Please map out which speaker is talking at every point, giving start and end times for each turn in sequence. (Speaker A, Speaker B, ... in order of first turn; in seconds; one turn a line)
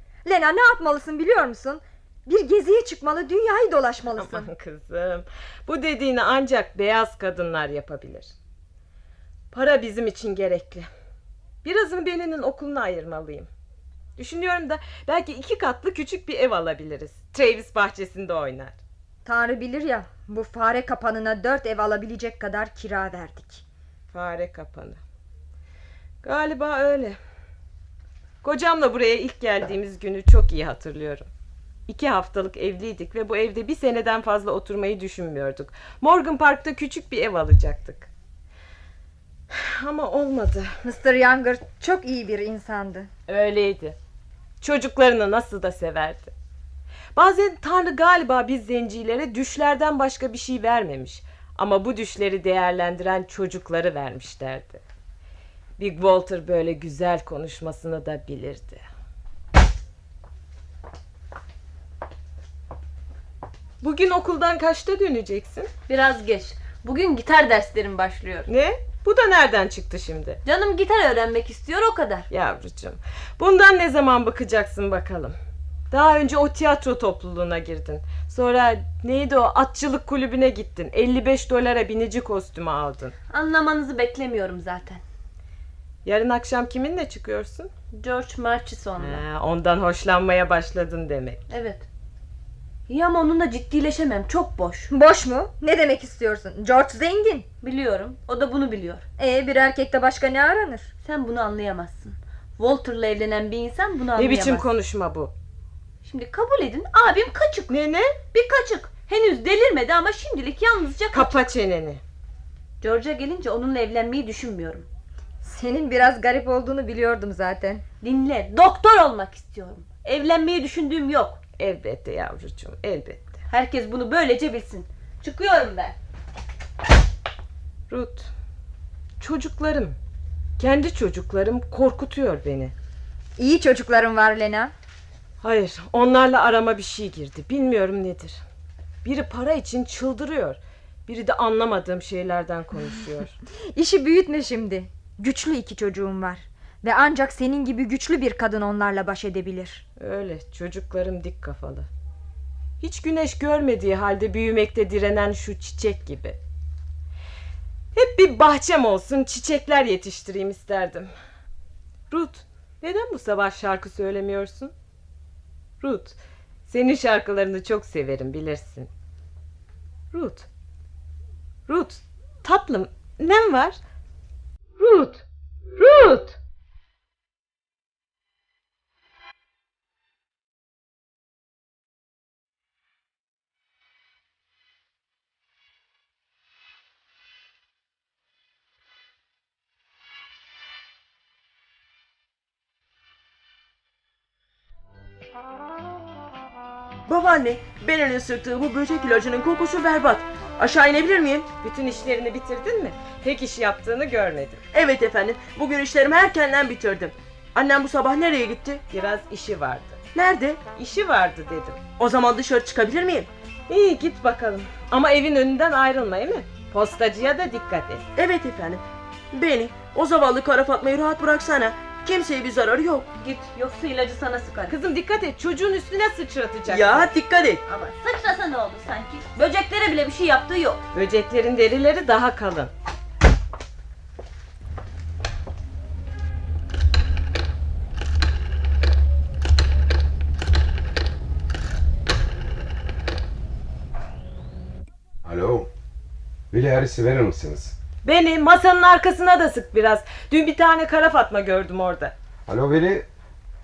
Speaker A: 0.2-4.5
Speaker B: 4.2-8.3
Speaker B: 9.5-10.9
Speaker B: 11.6-13.5
Speaker B: 14.2-18.8
Speaker A: 19.2-23.6
Speaker B: 24.1-25.0
Speaker B: 26.2-27.2
Speaker B: 28.4-31.3
Speaker B: 31.9-38.1
Speaker B: 39.5-40.7
Speaker A: 40.8-43.1
Speaker B: 43.3-44.0
Speaker B: 44.6-46.3
Speaker B: 47.1-54.8
Speaker B: 55.8-58.9
Speaker B: 63.8-65.7
Speaker C: 65.9-68.5
Speaker B: 68.5-70.4
Speaker C: 70.4-72.3
Speaker B: 72.3-75.3
Speaker B: 75.9-83.1
Speaker C: 83.3-85.0
Speaker B: 86.0-87.7
Speaker C: 87.9-89.2
Speaker B: 89.0-91.4
Speaker C: 91.5-91.8
Speaker C: 92.9-94.9
Speaker A: 94.9-97.5
Speaker C: 97.6-99.0
Speaker A: 99.2-100.9
Speaker C: 101.0-104.7
Speaker B: 104.2-105.3
Speaker C: 106.0-107.7
Speaker B: 107.7-108.1
Speaker C: 108.3-111.4
Speaker B: 111.1-112.0
Speaker C: 112.8-114.9
Speaker A: 115.4-117.8
Speaker C: 118.0-121.4
Speaker B: 121.6-123.4
Speaker C: 123.5-125.9
Speaker B: 127.9-128.3
Speaker B: 129.2-130.0
Speaker B: 130.6-132.7
Speaker A: 133.4-134.7
Speaker B: 135.4-138.4
Speaker B: 139.0-143.3
Speaker A: 143.7-149.8
Speaker B: 150.0-151.9
Speaker B: 152.8-156.4
Speaker B: 157.9-161.1
Speaker B: 162.1-164.7
Speaker B: 165.8-166.2
Speaker B: 166.7-168.9
Speaker B: 170.1-170.5
Speaker B: 171.7-173.8
Speaker B: 174.8-175.2
Speaker B: 175.8-176.4
Speaker D: 197.1-201.5
Speaker B: 201.6-204.6
Speaker D: 204.7-208.8
Speaker B: 208.9-210.0
Speaker D: 210.1-210.7
Speaker B: 210.7-211.8
Speaker D: 212.0-213.3
Speaker B: 213.7-218.0
Speaker D: 218.2-223.1
Speaker C: 223.1-224.8
Speaker B: 224.7-227.1
Speaker D: 226.7-227.6
Speaker C: 227.7-230.8
Speaker B: 230.9-232.7
Speaker E: 245.2-245.7
Speaker E: 246.5-247.7
Speaker B: 248.0-252.1
Speaker E: 252.5-253.1